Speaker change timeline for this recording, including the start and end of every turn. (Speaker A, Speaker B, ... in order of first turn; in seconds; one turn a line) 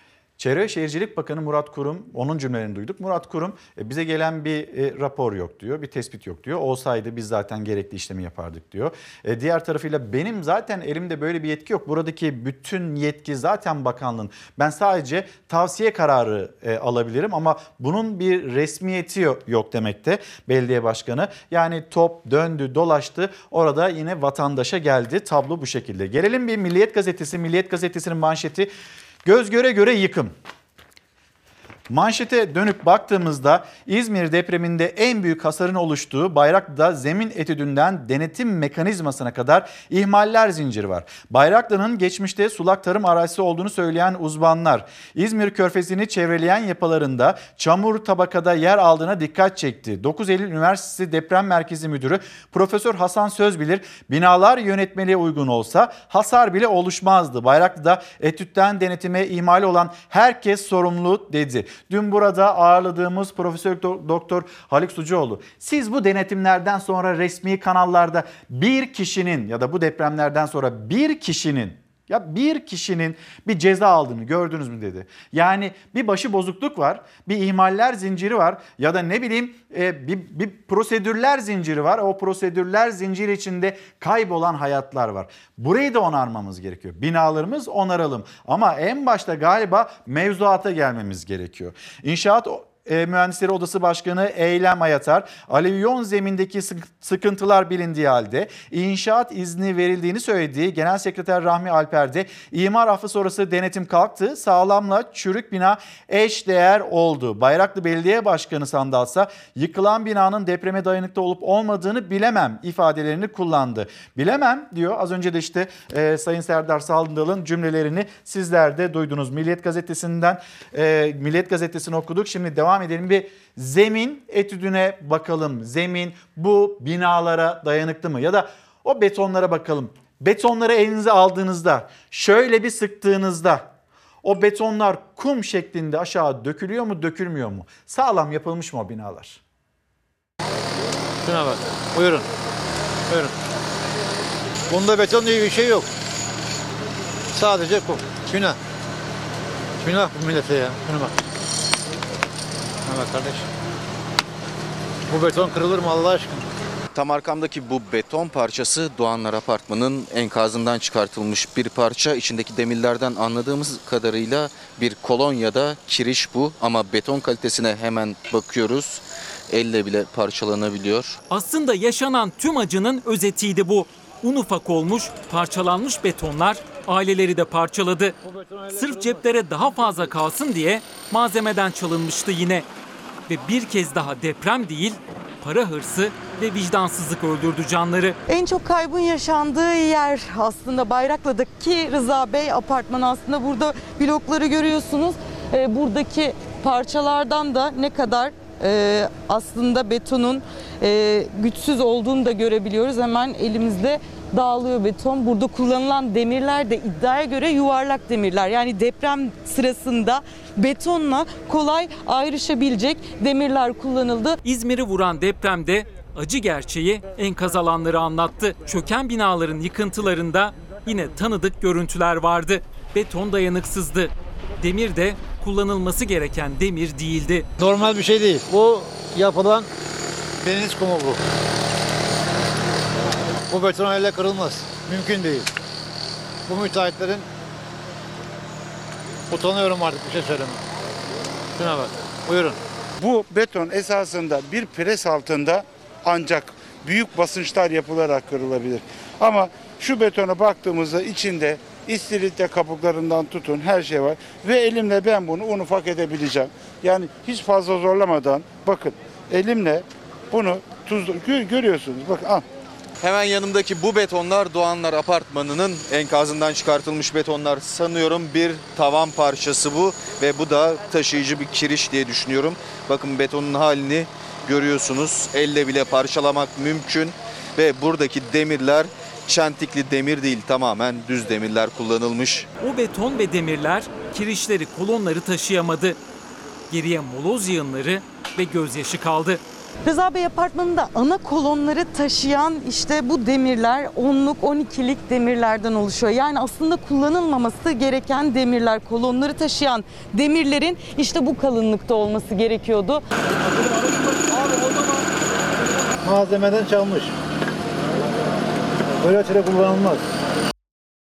Speaker A: 0.4-28.7
Speaker A: 29.2-30.3
Speaker A: 31.9-133.7
Speaker A: 134.2-139.4
Speaker B: 141.2-142.3
Speaker B: 144.7-145.9
Speaker B: 147.3-148.6
Speaker B: 149.8-151.1
Speaker B: 152.8-153.5
Speaker B: 155.1-156.4
Speaker C: 156.9-171.2
Speaker D: 171.3-182.7
Speaker D: 183.3-188.2
Speaker E: 188.3-214.4
Speaker D: 214.4-227.5
Speaker B: 227.6-229.7
Speaker B: 230.4-231.2
Speaker B: 233.5-235.5
Speaker B: 236.5-237.3
Speaker B: 239.3-240.6
Speaker B: 241.6-242.6
Speaker F: 243.0-262.4
Speaker C: 263.0-282.5
Speaker D: 282.6-286.0
Speaker D: 286.7-289.4
Speaker E: 289.9-303.0
Speaker B: 303.6-304.6
Speaker B: 306.0-307.1
Speaker B: 309.0-310.1